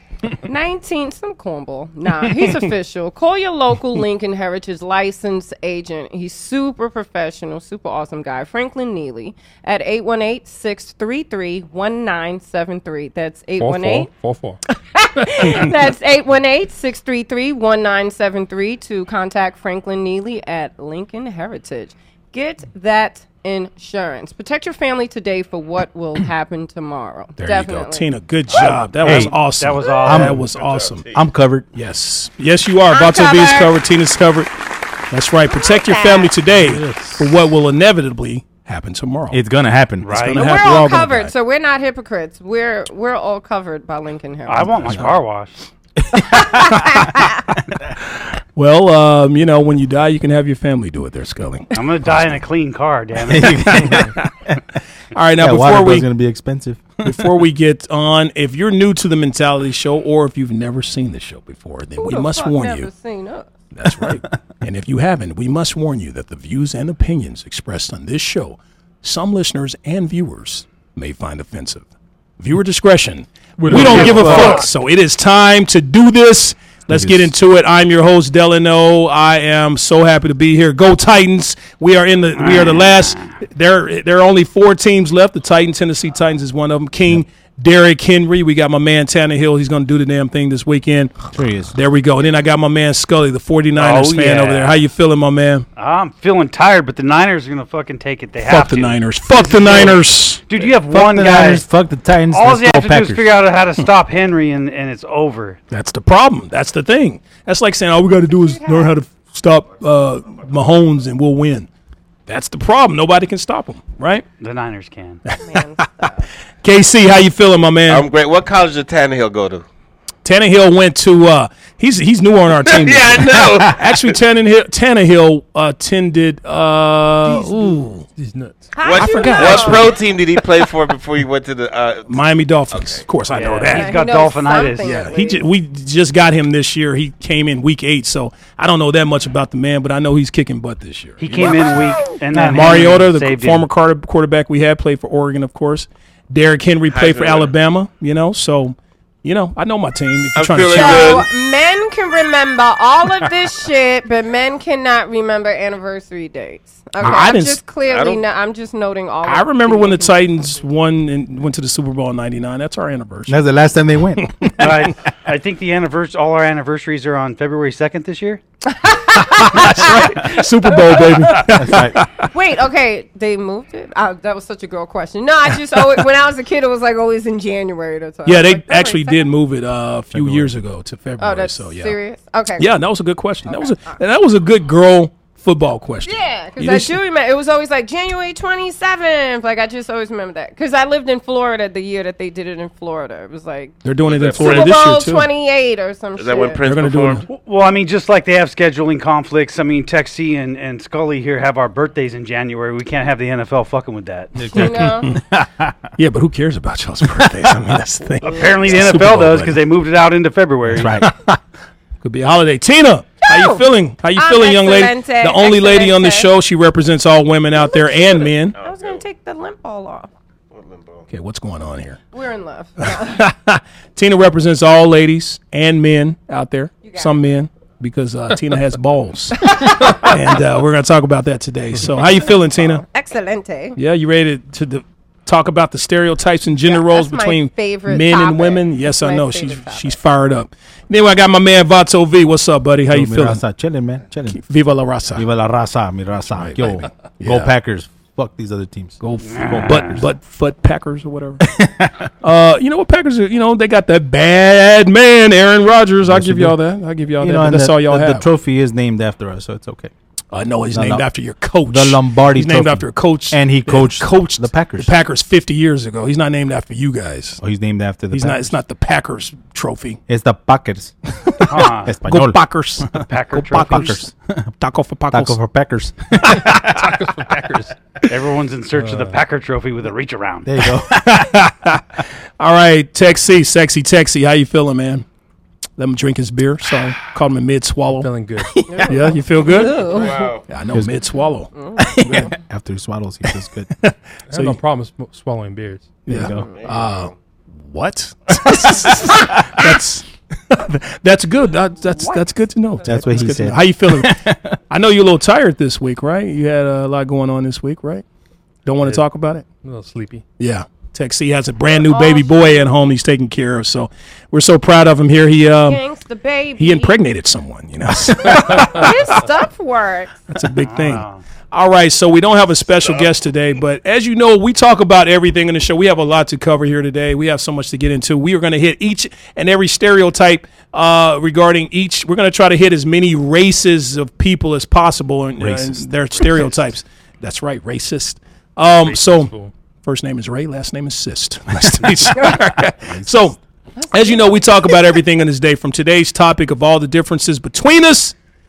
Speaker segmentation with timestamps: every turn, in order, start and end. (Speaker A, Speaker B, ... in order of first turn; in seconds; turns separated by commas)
Speaker A: 0.4-14.1, Speaker B: 13.6-14.6, Speaker A: 14.9-28.1, Speaker C: 27.4-31.0, Speaker D: 28.5-30.4, Speaker E: 28.6-29.4, Speaker E: 30.0-30.4, Speaker F: 30.4-31.2, Speaker E: 31.1-31.6, Speaker C: 31.7-34.5, Speaker A: 32.9-33.7, Speaker C: 35.1-39.4, Speaker A: 35.5-36.3, Speaker E: 36.5-37.3, Speaker E: 39.3-40.3, Speaker D: 40.0-40.4, Speaker C: 40.1-41.3, Speaker A: 40.3-45.0, Speaker D: 44.5-45.5, Speaker E: 46.0-47.0, Speaker A: 46.5-47.3, Speaker C: 48.2-51.7, Speaker D: 51.7-54.0, Speaker E: 53.3-54.6, Speaker C: 53.6-54.3, Speaker C: 55.1-56.1, Speaker E: 55.4-57.3, Speaker C: 57.0-62.9, Speaker A: 62.0-63.5, Speaker C: 63.7-71.8, Speaker C: 72.4-95.7, Speaker E: 73.6-74.6, Speaker D: 73.7-74.6, Speaker E: 76.9-77.3, Speaker D: 82.4-83.3, Speaker E: 91.3-91.7, Speaker D: 93.8-94.8, Speaker D: 95.8-101.6, Speaker C: 98.4-100.4, Speaker E: 100.9-103.3, Speaker D: 102.3-105.6, Speaker C: 105.7-111.7, Speaker A: 108.3-109.0, Speaker C: 112.3-114.2, Speaker D: 114.4-115.2, Speaker A: 115.3-116.3, Speaker C: 116.6-118.0, Speaker F: 117.9-119.6, Speaker C: 120.2-128.0, Speaker F: 122.7-123.9, Speaker B: 128.2-128.7, Speaker A: 128.7-129.9, Speaker F: 128.8-132.2, Speaker C: 128.9-129.9, Speaker C: 132.1-134.0, Speaker F: 132.7-133.0, Speaker D: 133.3-135.0, Speaker A: 133.7-135.4, Speaker C: 134.8-151.2, Speaker D: 141.2-143.7, Speaker F: 146.9-147.5, Speaker F: 150.3-151.2, Speaker A: 150.7-160.2, Speaker C: 157.0-157.6, Speaker F: 157.8-158.2, Speaker C: 159.2-163.3, Speaker E: 163.3-164.9, Speaker D: 164.6-168.4, Speaker A: 168.7-171.5, Speaker C: 169.2-172.3, Speaker E: 171.4-172.0, Speaker A: 172.2-179.3, Speaker C: 178.2-181.9, Speaker E: 180.1-180.5, Speaker A: 181.2-182.7, Speaker C: 182.6-186.9, Speaker A: 183.4-184.0, Speaker A: 186.1-193.7, Speaker C: 193.8-195.3, Speaker F: 194.0-194.9, Speaker A: 194.3-196.6, Speaker F: 196.2-197.2, Speaker C: 196.7-197.2, Speaker D: 197.3-204.4, Speaker E: 204.3-205.8, Speaker A: 204.5-205.1, Speaker C: 204.6-205.2, Speaker C: 206.0-209.6, Speaker D: 208.2-211.0, Speaker E: 210.7-211.2, Speaker C: 212.0-218.6, Speaker A: 213.2-213.6, Speaker A: 214.2-216.3, Speaker A: 217.5-220.1, Speaker F: 218.6-219.0, Speaker F: 220.5-221.0, Speaker C: 221.1-222.0, Speaker A: 222.1-223.2, Speaker C: 222.8-232.8, Speaker A: 226.8-227.2, Speaker A: 229.5-230.1, Speaker A: 232.1-233.8, Speaker C: 233.8-243.4, Speaker A: 236.6-239.9, Speaker E: 242.9-244.4, Speaker C: 244.3-245.3, Speaker E: 245.1-250.0, Speaker C: 246.3-247.5, Speaker C: 249.0-251.5, Speaker D: 249.2-250.0, Speaker E: 251.4-251.9, Speaker C: 252.2-258.2, Speaker E: 256.0-256.6, Speaker E: 257.2-259.9, Speaker C: 260.3-267.4, Speaker E: 260.7-261.0, Speaker E: 261.7-264.9, Speaker E: 267.4-268.6, Speaker C: 268.1-270.0, Speaker E: 270.1-270.9, Speaker C: 271.2-274.0, Speaker D: 271.5-271.9, Speaker E: 271.8-274.5, Speaker D: 272.9-273.9, Speaker C: 274.6-275.4, Speaker E: 275.1-276.9, Speaker B: 276.5-277.8, Speaker D: 278.1-280.5, Speaker B: 278.7-279.2, Speaker E: 280.4-281.3, Speaker C: 280.9-285.0, Speaker C: 285.8-288.1, Speaker B: 287.9-288.5, Speaker A: 288.7-290.3, Speaker C: 288.8-291.5, Speaker F: 289.8-290.4, Speaker E: 290.7-291.0, Speaker A: 291.5-291.9, Speaker E: 291.8-293.7, Speaker C: 292.1-292.3, Speaker C: 293.2-294.6, Speaker B: 294.3-296.0, Speaker E: 296.1-296.4, Speaker C: 296.1-297.1, Speaker F: 296.4-297.1, Speaker C: 297.6-308.0, Speaker E: 302.8-304.6, Speaker C: 308.6-309.4, Speaker B: 309.6-310.2, Speaker C: 310.4-315.8, Speaker A: 311.8-312.7, Speaker A: 315.6-316.9, Speaker C: 316.6-319.0, Speaker A: 318.5-320.1, Speaker C: 320.3-339.3, Speaker D: 320.6-321.2, Speaker E: 335.4-336.4, Speaker B: 338.8-339.5, Speaker C: 339.8-343.4, Speaker E: 341.6-342.1, Speaker E: 342.9-343.2, Speaker A: 343.8-344.8, Speaker C: 343.9-348.1